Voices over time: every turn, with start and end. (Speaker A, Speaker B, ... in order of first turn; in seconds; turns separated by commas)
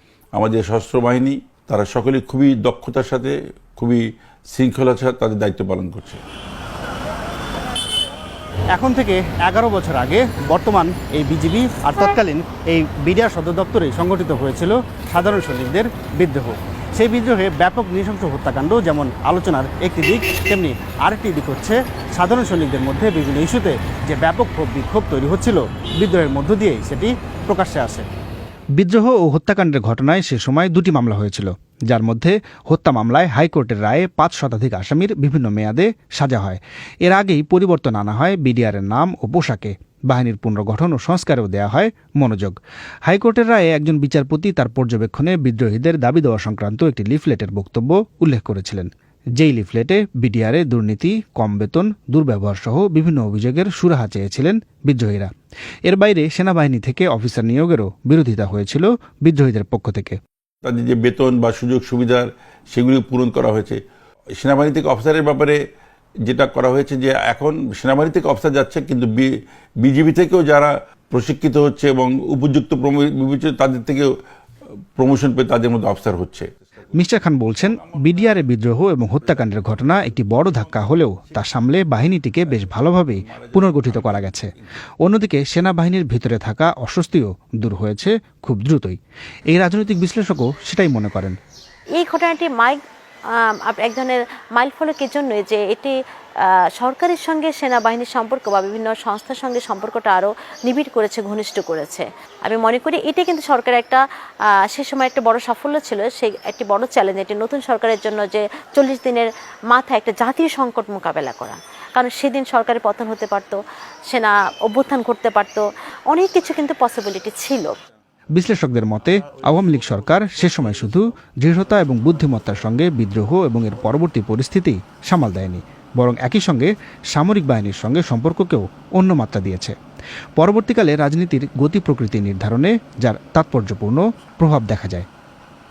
Speaker A: 0.3-6.2, Speaker B: 8.7-28.0, Speaker B: 28.8-55.3, Speaker B: 55.9-60.2, Speaker A: 60.6-63.8, Speaker A: 64.4-65.6, Speaker A: 66.2-69.3, Speaker A: 69.8-74.1, Speaker A: 75.0-76.6, Speaker B: 76.9-84.5, Speaker A: 77.6-78.5, Speaker A: 79.2-81.7, Speaker A: 82.5-84.4, Speaker B: 85.0-89.0, Speaker B: 89.5-91.4, Speaker C: 92.0-92.8, Speaker C: 93.3-104.0, Speaker C: 104.7-113.6, Speaker C: 114.1-117.7, Speaker B: 118.3-129.8, Speaker B: 130.4-135.1